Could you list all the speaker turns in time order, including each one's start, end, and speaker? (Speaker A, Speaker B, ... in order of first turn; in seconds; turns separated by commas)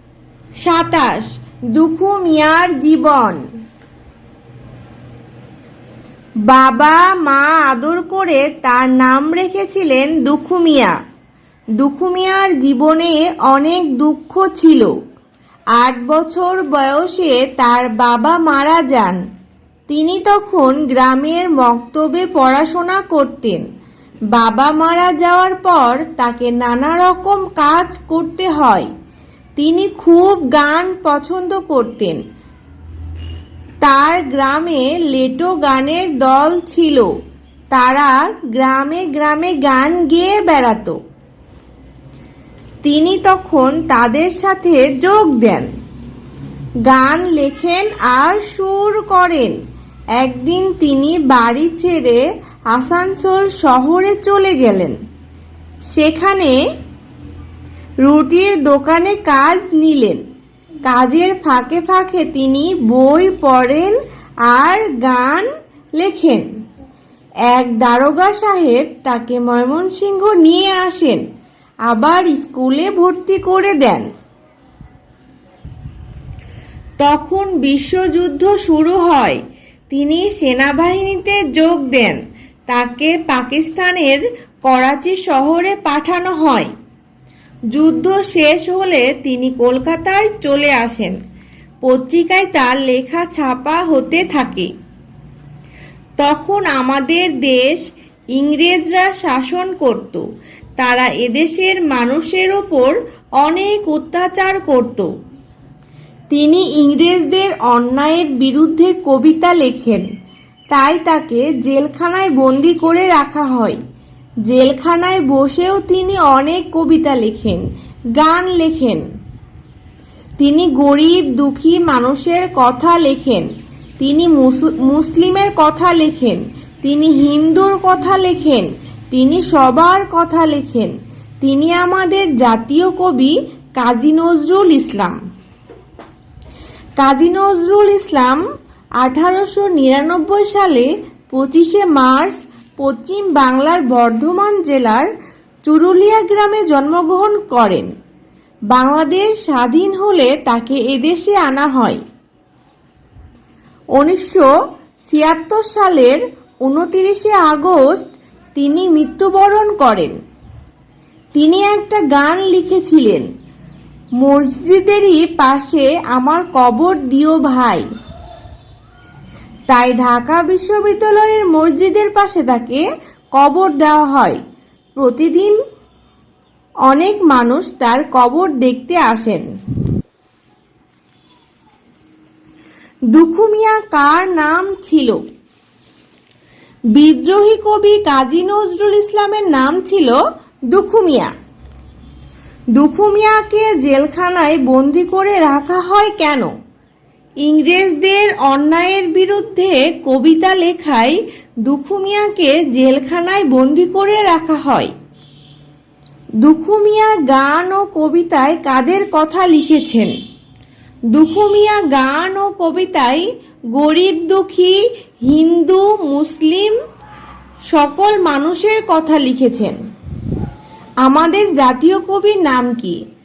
Speaker A: 0.6-3.4, Speaker A: 6.5-11.0, Speaker A: 11.8-14.9, Speaker A: 15.8-19.2, Speaker A: 19.9-23.6, Speaker A: 24.3-28.9, Speaker A: 29.6-32.2, Speaker A: 33.8-37.1, Speaker A: 37.7-41.0, Speaker A: 42.8-45.7, Speaker A: 46.9-49.6, Speaker A: 50.2-55.0, Speaker A: 55.9-56.6, Speaker A: 58.0-60.2, Speaker A: 60.9-64.0, Speaker A: 64.5-66.5, Speaker A: 67.5-71.2, Speaker A: 71.9-74.1, Speaker A: 77.0-79.4, Speaker A: 79.9-86.7, Speaker A: 87.7-91.2, Speaker A: 91.8-94.7, Speaker A: 96.2-97.8, Speaker A: 98.4-100.2, Speaker A: 100.8-105.1, Speaker A: 106.3-110.1, Speaker A: 110.7-113.8, Speaker A: 114.5-117.6, Speaker A: 118.2-119.0, Speaker A: 120.4-123.5, Speaker A: 124.0-135.2, Speaker A: 137.0-138.4, Speaker A: 139.0-145.1, Speaker A: 145.7-147.9, Speaker A: 148.7-152.0, Speaker A: 154.0-154.5, Speaker A: 155.1-160.2, Speaker A: 161.3-163.3, Speaker A: 164.2-167.8, Speaker A: 169.7-174.4, Speaker A: 175.0-175.6, Speaker A: 176.9-179.4, Speaker A: 183.1-185.2, Speaker A: 187.0-190.2, Speaker A: 190.7-191.3, Speaker A: 192.8-196.5, Speaker A: 197.4-204.9, Speaker A: 206.4-210.1, Speaker A: 211.1-216.8, Speaker A: 217.7-219.8, Speaker A: 221.0-223.0